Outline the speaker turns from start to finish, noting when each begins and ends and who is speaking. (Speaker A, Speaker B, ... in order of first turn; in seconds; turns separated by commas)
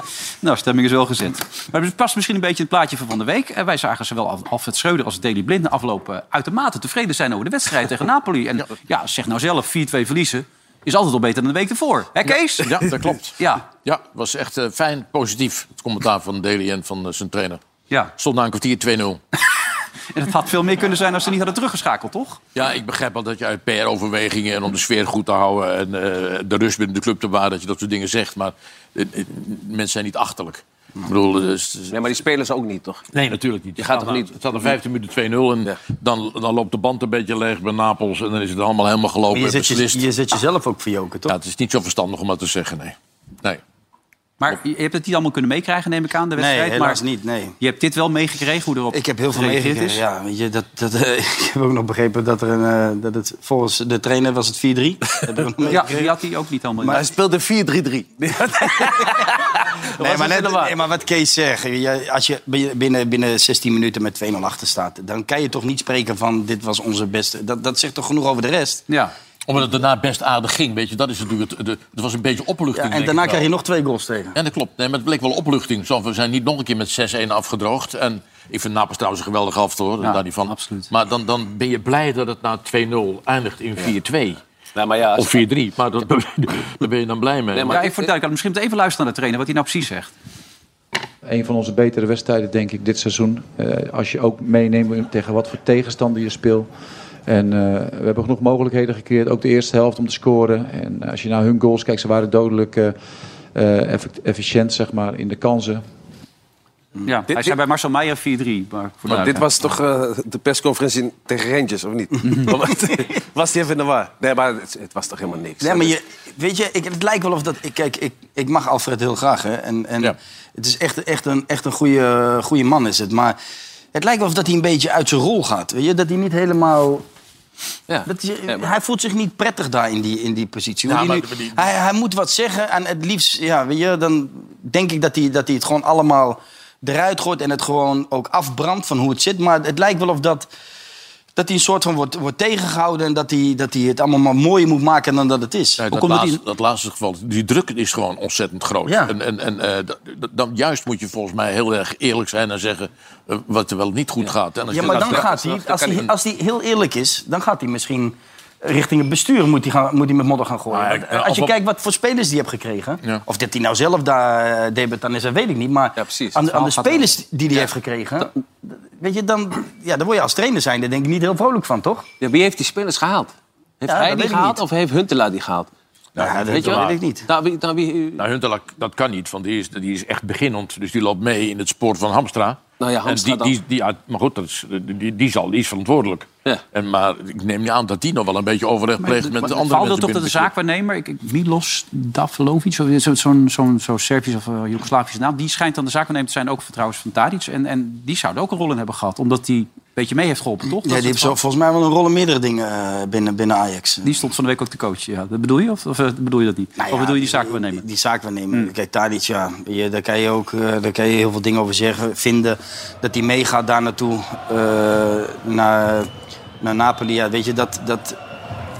Speaker A: 0.4-12.8, Speaker B: 12.6-17.6, Speaker A: 13.4-13.6, Speaker B: 18.2-19.2, Speaker A: 20.1-22.4, Speaker B: 22.5-32.0, Speaker C: 31.9-33.0, Speaker B: 33.1-40.0, Speaker C: 33.8-34.7, Speaker D: 39.3-41.4, Speaker B: 41.3-43.6, Speaker A: 44.4-47.0, Speaker D: 46.3-47.5, Speaker A: 47.6-50.0, Speaker D: 48.9-55.9, Speaker A: 55.7-57.1, Speaker C: 56.8-60.8, Speaker D: 60.0-68.8, Speaker B: 69.5-73.5, Speaker D: 72.7-74.3, Speaker B: 74.3-84.4, Speaker A: 80.0-80.9, Speaker C: 84.7-85.5, Speaker B: 85.1-87.8, Speaker C: 87.5-88.1, Speaker A: 87.7-90.1, Speaker E: 91.2-96.7, Speaker E: 97.3-103.0, Speaker E: 103.5-105.8, Speaker A: 107.0-109.5, Speaker C: 107.3-107.5, Speaker C: 109.1-115.9, Speaker D: 115.6-123.4, Speaker D: 123.9-127.0, Speaker C: 127.9-128.7, Speaker D: 128.1-140.5, Speaker B: 130.9-131.6, Speaker D: 141.3-145.8, Speaker B: 145.8-155.3, Speaker A: 145.9-146.4, Speaker D: 148.8-149.1, Speaker C: 154.2-156.1, Speaker D: 154.7-172.1, Speaker B: 160.7-161.5, Speaker C: 166.0-167.1, Speaker C: 172.2-178.2, Speaker D: 173.9-174.6, Speaker D: 176.2-177.3, Speaker B: 176.4-177.0, Speaker B: 178.2-190.5, Speaker C: 182.8-183.6, Speaker A: 189.0-201.4, Speaker D: 200.8-204.2, Speaker A: 204.0-207.8, Speaker D: 206.8-216.1, Speaker D: 216.6-218.2